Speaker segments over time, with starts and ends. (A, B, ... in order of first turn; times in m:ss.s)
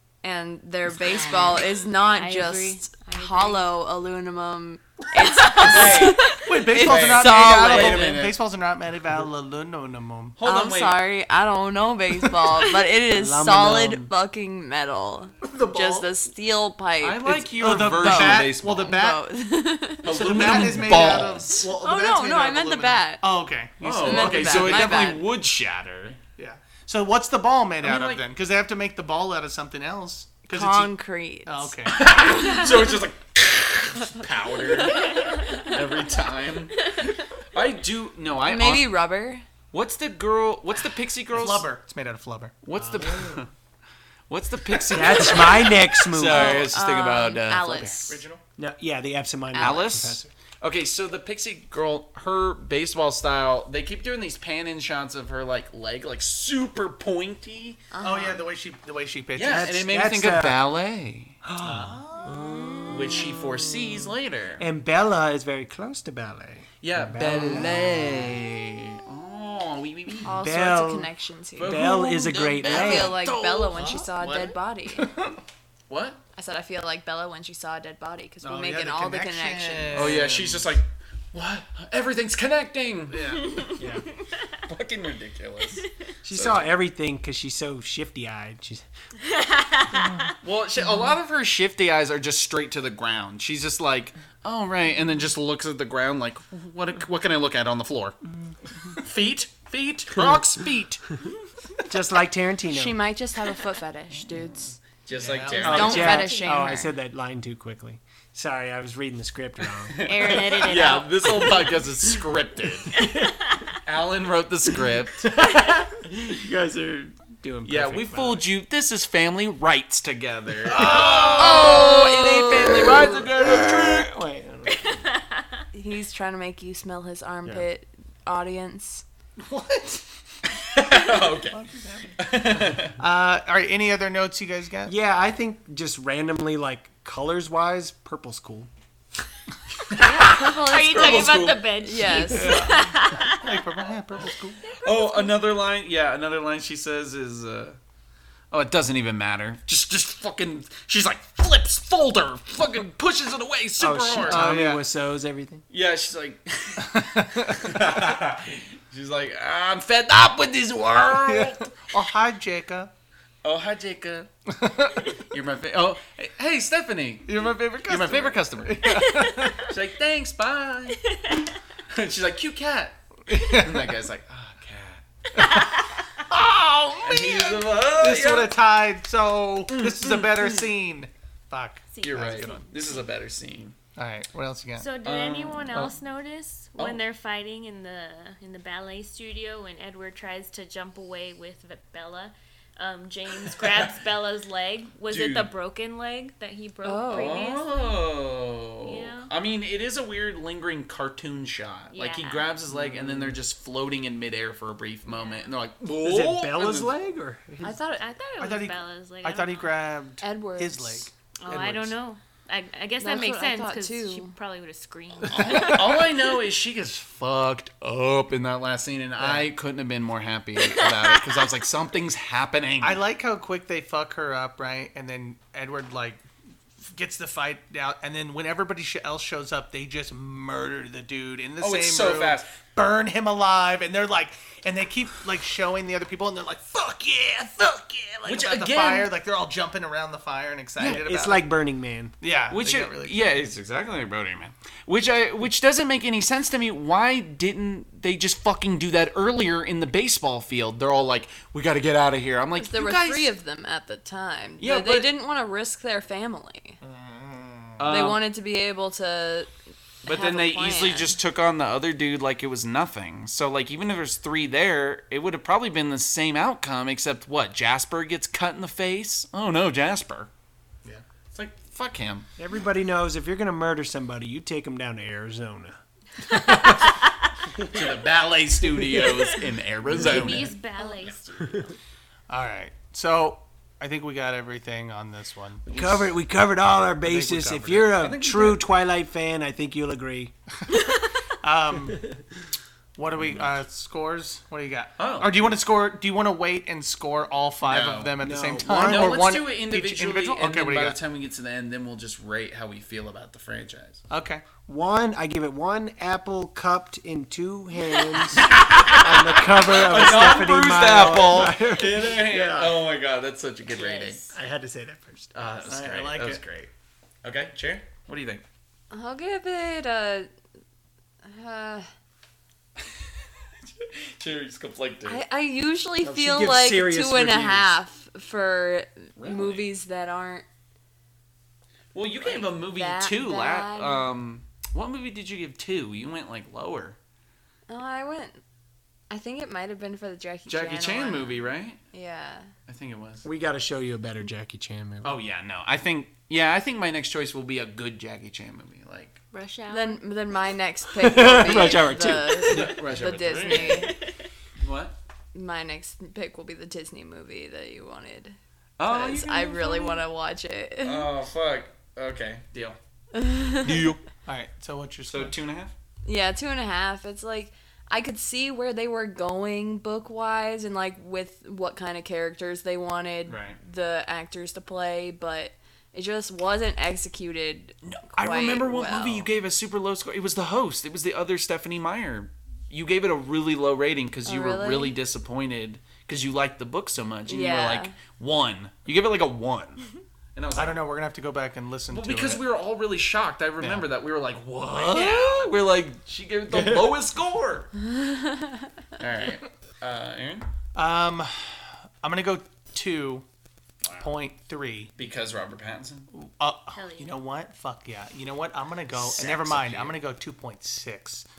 0:00.2-0:08.1 A
0:02.1-0:03.7 B
0:05.6-0:08.4 C
0:05.6-0:06.4 B
0:05.6-0:10.4 D
0:10.3-0:11.0 C
0:10.4-0:23.2 A
0:13.1-0:14.1 E
0:15.4-0:16.1 D
0:17.0-0:19.0 C
0:17.5-0:19.3 D
0:20.0-0:21.7 C
0:20.0-0:25.1 D
0:23.8-0:26.2 C
0:24.0-0:25.2 A
0:26.4-0:30.9 D
0:27.8-0:28.2 C
0:30.5-0:31.7 A
0:31.4-0:32.0 D
0:31.8-0:38.9 C
0:32.3-0:32.7 B
0:35.1-0:35.7 B
0:38.4-0:39.4 A
0:39.7-0:41.7 C
0:41.3-0:42.5 D
0:42.6-0:43.5 C
0:42.7-0:43.4 E
0:44.3-0:48.0 C
0:44.9-0:46.7 E
0:44.9-0:45.3 D
0:46.2-0:48.2 A
0:48.0-0:48.4 D
0:48.6-0:50.3 E
0:49.5-0:49.9 A
0:49.6-0:57.8 C
0:57.9-0:58.4 A
0:58.0-0:59.7 D
0:59.3-1:01.4 C
0:59.5-1:00.6 E
1:01.4-1:03.3 E
1:01.6-1:02.3 D
1:02.8-1:04.6 C
1:04.6-1:08.3 E
1:06.8-1:10.3 C
1:10.2-1:12.0 A
1:10.2-1:13.2 E
1:11.6-1:14.0 C
1:12.6-1:15.1 A
1:13.7-1:15.3 D
1:15.9-1:16.2 C
1:16.4-1:20.1 A
1:18.4-1:20.7 D
1:19.9-1:23.7 C
1:23.1-1:23.5 D
1:23.4-1:24.4 B
1:23.8-1:24.0 E
1:24.7-1:26.8 C
1:26.2-1:28.8 E
1:29.2-1:30.4 B
1:30.4-1:38.2 C
1:38.9-1:41.1 C
1:41.9-1:43.0 E
1:42.7-1:44.8 A
1:45.0-1:46.3 C
1:45.2-1:46.1 D
1:45.5-1:50.4 E
1:45.6-1:46.8 B
1:45.7-1:46.9 A
1:49.9-1:52.9 C
1:50.0-1:51.8 B
1:52.9-1:53.7 B
1:52.9-1:53.4 E
1:53.8-1:55.3 C
1:55.2-1:58.4 E
1:57.6-2:04.1 C
2:00.6-2:02.0 E
2:01.3-2:03.2 A
2:02.5-2:05.0 E
2:04.7-2:05.5 B
2:05.7-2:09.0 A
2:09.5-2:10.0 D
2:10.6-2:11.6 C
2:11.5-2:14.9 D
2:12.2-2:13.0 C
2:14.9-2:18.7 E
2:19.9-2:21.7 C
2:19.9-2:22.7 A
2:20.2-2:23.6 B
2:22.3-2:24.7 D
2:24.7-2:25.3 B
2:24.8-2:27.8 C
2:28.5-2:34.7 C
2:33.8-2:35.6 E
2:34.3-2:34.8 D
2:35.7-2:41.6 C
2:36.8-2:38.0 D
2:41.1-2:42.9 D
2:43.4-2:44.3 C
2:44.5-2:45.1 D
2:45.3-2:47.3 C
2:47.2-2:49.7 D
2:47.8-2:48.8 C
2:49.0-2:49.5 B
2:49.6-2:51.0 C
2:51.0-2:51.5 B
2:51.9-2:55.0 C
2:53.3-2:54.0 D
2:55.3-2:56.1 B
2:55.4-2:55.7 D
2:56.3-3:02.6 D
2:57.0-2:58.6 C
2:59.7-3:00.7 C
3:01.9-3:03.0 B
3:02.0-3:03.7 C
3:04.0-3:04.9 D
3:04.8-3:18.1 B
3:05.0-3:05.9 C
3:13.5-3:13.9 C
3:15.1-3:15.5 C
3:16.8-3:17.5 A
3:17.1-3:26.9 C
3:18.8-3:19.3 B
3:21.9-3:22.5 B
3:22.9-3:23.3 E
3:25.1-3:25.5 B
3:26.0-3:27.8 E
3:27.6-3:28.0 A
3:27.9-3:29.8 B
3:28.4-3:32.0 D
3:30.2-3:31.0 A
3:31.3-3:36.1 B
3:33.0-3:34.3 A
3:35.3-3:43.0 C
3:39.2-3:39.5 D
3:42.8-3:46.2 D
3:46.8-4:01.5 D
3:51.6-3:52.5 C
3:58.2-3:59.1 C
4:00.8-4:02.1 E
4:02.2-4:03.6 D
4:02.5-4:13.3 C
4:12.6-4:16.8 A
4:14.6-4:15.1 C
4:16.8-4:17.8 D
4:17.8-4:18.2 C
4:17.8-4:19.5 A
4:20.0-4:21.1 A
4:20.0-4:30.3 C
4:31.3-4:32.3 C
4:32.4-4:35.8 E
4:36.3-4:37.1 B
4:37.6-4:41.6 C
4:38.9-4:39.4 B
4:39.9-4:41.6 B
4:40.0-4:40.4 E
4:42.3-4:45.6 D
4:45.7-4:46.0 C
4:45.7-4:50.3 E
4:47.0-4:48.1 D
4:47.9-4:48.6 C
4:51.4-4:52.1 D
4:53.0-5:01.0 D
4:53.1-4:53.5 C
4:55.0-4:55.5 C
4:57.6-4:58.1 C
4:58.2-4:59.3 E
4:58.7-5:04.0 C
5:04.1-5:04.4 D
5:04.6-5:12.8 E
5:08.3-5:14.3 C
5:13.7-5:14.2 B
5:14.3-5:15.3 E
5:15.3-5:16.7 C
5:15.7-5:16.4 D
5:17.2-5:18.4 C
5:18.9-5:20.3 A
5:21.2-5:21.9 A
5:23.6-5:25.2 C
5:25.1-5:30.4 A
5:26.0-5:27.8 E
5:29.2-5:29.7 C
5:31.9-5:37.0 C
5:32.3-5:34.1 A
5:37.7-5:38.4 A
5:39.1-5:42.5 A
5:40.5-5:41.8 C
5:42.7-5:43.3 C
5:43.2-5:45.2 E
5:45.0-5:49.2 C
5:49.3-5:50.0 B
5:49.7-5:54.0 A
5:51.0-5:52.8 E
5:52.4-5:53.9 C
5:53.5-5:54.3 B
5:54.6-5:54.9 C
5:55.3-6:01.1 A
5:58.8-6:00.0 C
6:00.8-6:02.8 C
6:03.1-6:03.9 A
6:03.6-6:04.0 C
6:04.2-6:05.4 D
6:05.0-6:05.7 C
6:06.0-6:19.3 A
6:13.3-6:13.6 C
6:17.8-6:29.8 C
6:24.2-6:25.0 A
6:27.2-6:27.9 A
6:30.3-6:30.8 C
6:30.5-6:32.4 D
6:31.9-6:37.7 C
6:33.6-6:33.9 D
6:34.7-6:35.5 D
6:38.0-6:38.5 A
6:39.0-6:40.5 C
6:40.7-6:41.5 D
6:42.0-6:43.2 D
6:44.0-6:44.9 D
6:45.0-6:46.1 C
6:46.1-6:51.2 D
6:46.7-6:47.2 B
6:48.9-6:50.0 C